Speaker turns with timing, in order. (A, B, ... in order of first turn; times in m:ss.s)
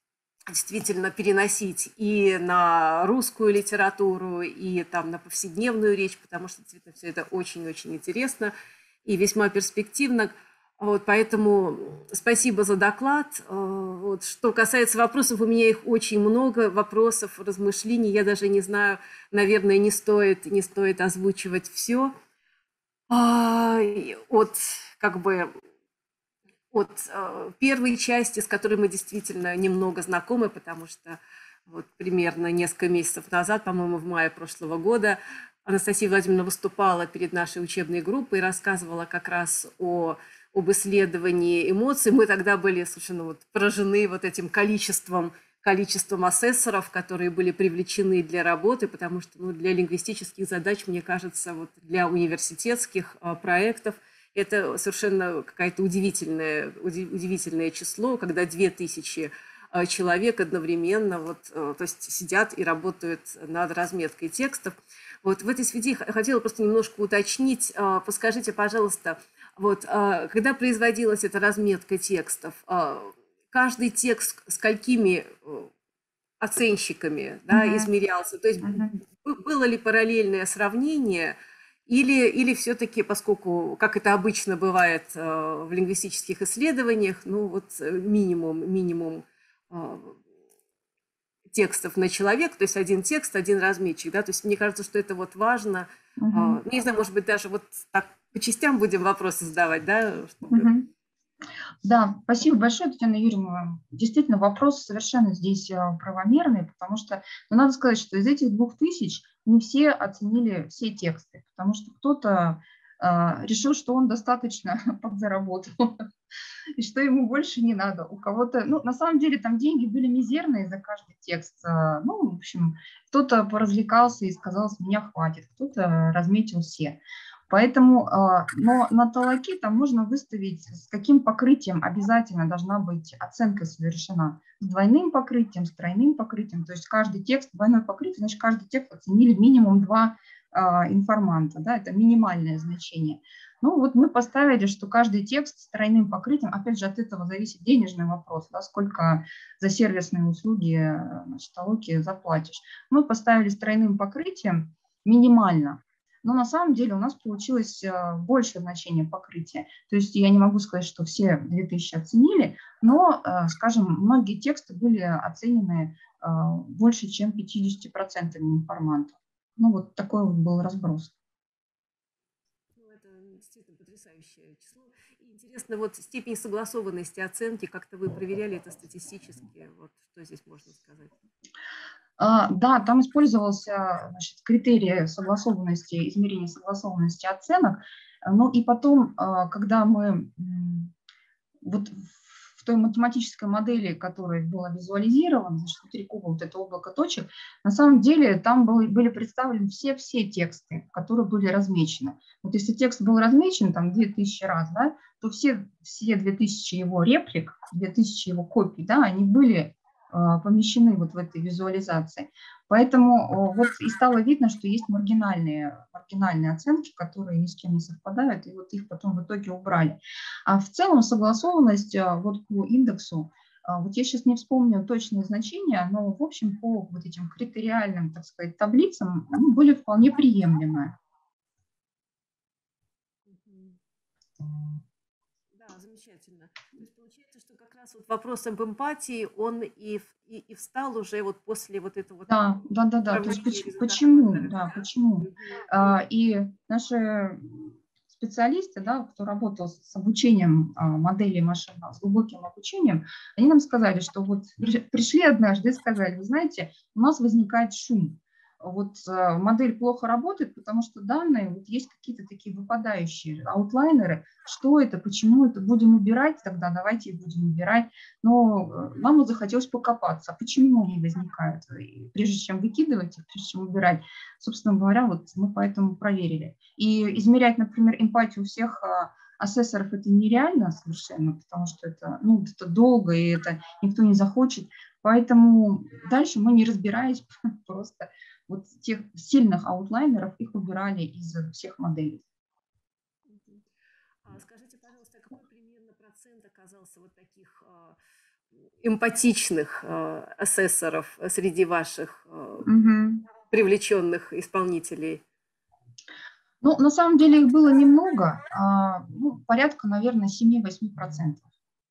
0:00.5-0:08.5 A
0:09.0-0:22.2 A
0:23.1-0:25.5 A
0:26.7-1:15.7 A
1:16.4-1:30.2 A
1:17.5-1:17.9 B
1:18.6-1:18.9 B
1:31.5-1:40.7 A
1:36.2-1:36.6 B
1:40.5-1:40.9 B
1:41.8-1:56.1 B
1:56.8-2:51.1 B
2:52.8-3:01.1 A
3:02.2-3:10.9 B
3:11.6-3:51.0 B
3:53.3-3:53.8 A
3:55.5-4:05.9 A
4:02.3-4:52.2 B
4:53.3-4:53.6 A
4:54.2-4:58.0 A
4:58.8-5:02.7 A
5:02.6-5:03.3 B
5:03.5-5:05.2 A
5:06.6-5:11.4 B